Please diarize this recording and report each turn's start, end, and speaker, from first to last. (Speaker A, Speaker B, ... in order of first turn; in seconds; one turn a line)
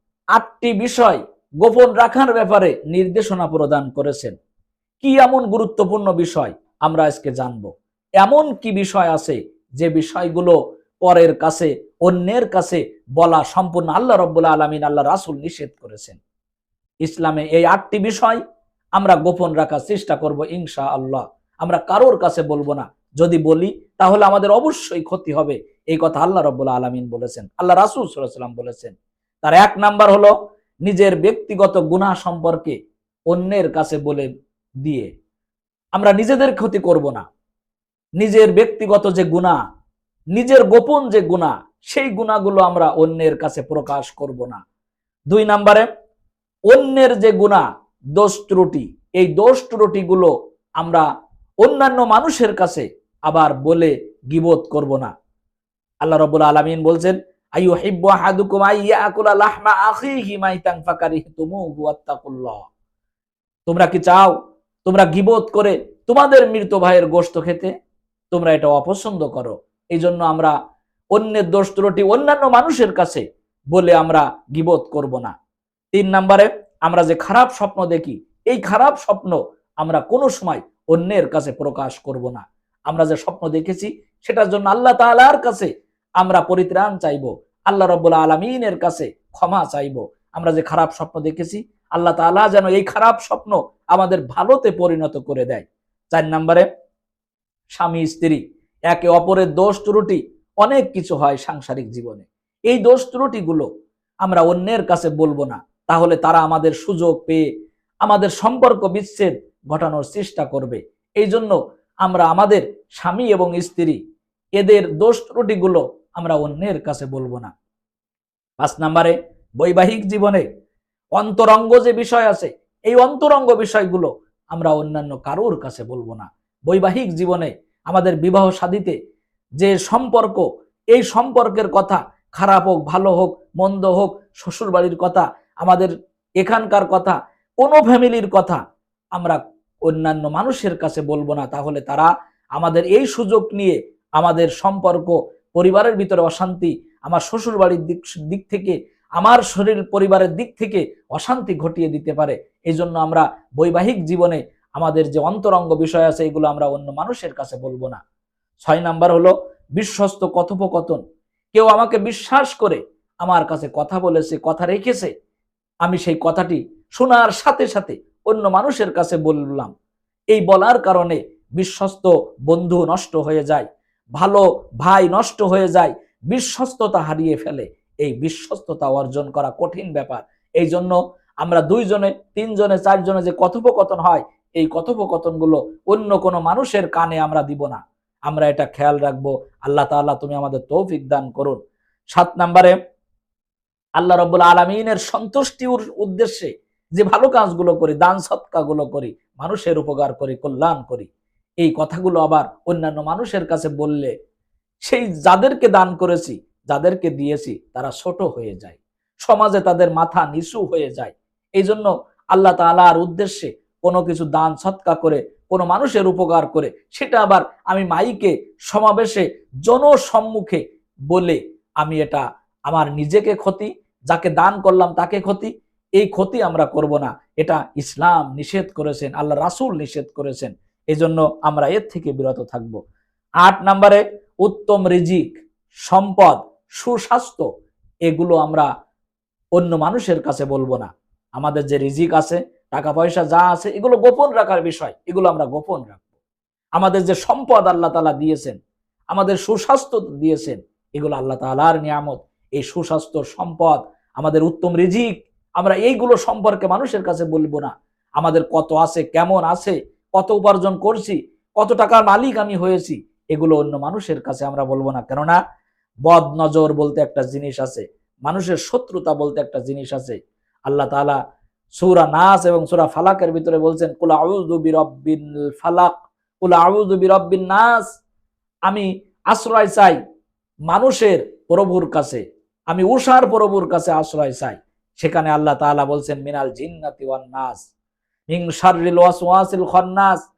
Speaker A: 0.3-4.4
Speaker A: 5.0-16.2
Speaker A: 17.0-18.4
Speaker A: 19.0-30.3
Speaker A: 30.9-32.8
Speaker A: 33.3-34.3
Speaker A: 34.8-35.1
Speaker A: 36.0-37.2
Speaker A: 38.2-39.6
Speaker A: 40.4-44.6
Speaker A: 45.3-45.9
Speaker A: 46.7-47.6
Speaker A: 48.2-51.0
Speaker A: 51.6-55.1
Speaker A: 56.0-62.6
Speaker A: 63.7-67.7
Speaker A: 68.3-70.5
Speaker A: 71.2-75.3
Speaker A: 75.9-96.7
Speaker A: 97.7-103.7
Speaker A: 104.2-107.5
Speaker A: 108.0-114.0
Speaker A: 114.6-117.5
Speaker A: 118.6-120.4
Speaker A: 121.2-128.9
Speaker A: 129.6-138.6
Speaker A: 139.2-158.0
Speaker A: 158.6-161.0
Speaker A: 161.6-165.1
Speaker A: 165.8-169.7
Speaker A: 170.3-173.7
Speaker A: 174.2-191.6
Speaker A: 192.1-192.8
Speaker A: 194.0-201.1
Speaker A: 201.6-204.1
Speaker A: 204.8-220.6
Speaker A: 221.1-232.8
Speaker A: 233.4-235.3
Speaker A: 235.9-237.4
Speaker A: 238.1-238.7
Speaker A: 239.6-246.0
Speaker A: 246.8-248.6
Speaker A: 249.1-265.4
Speaker A: 266.1-270.2
Speaker A: 270.7-271.2
Speaker A: 271.8-277.9
Speaker A: 278.7-280.0
Speaker A: 280.7-287.6
Speaker A: 288.3-290.2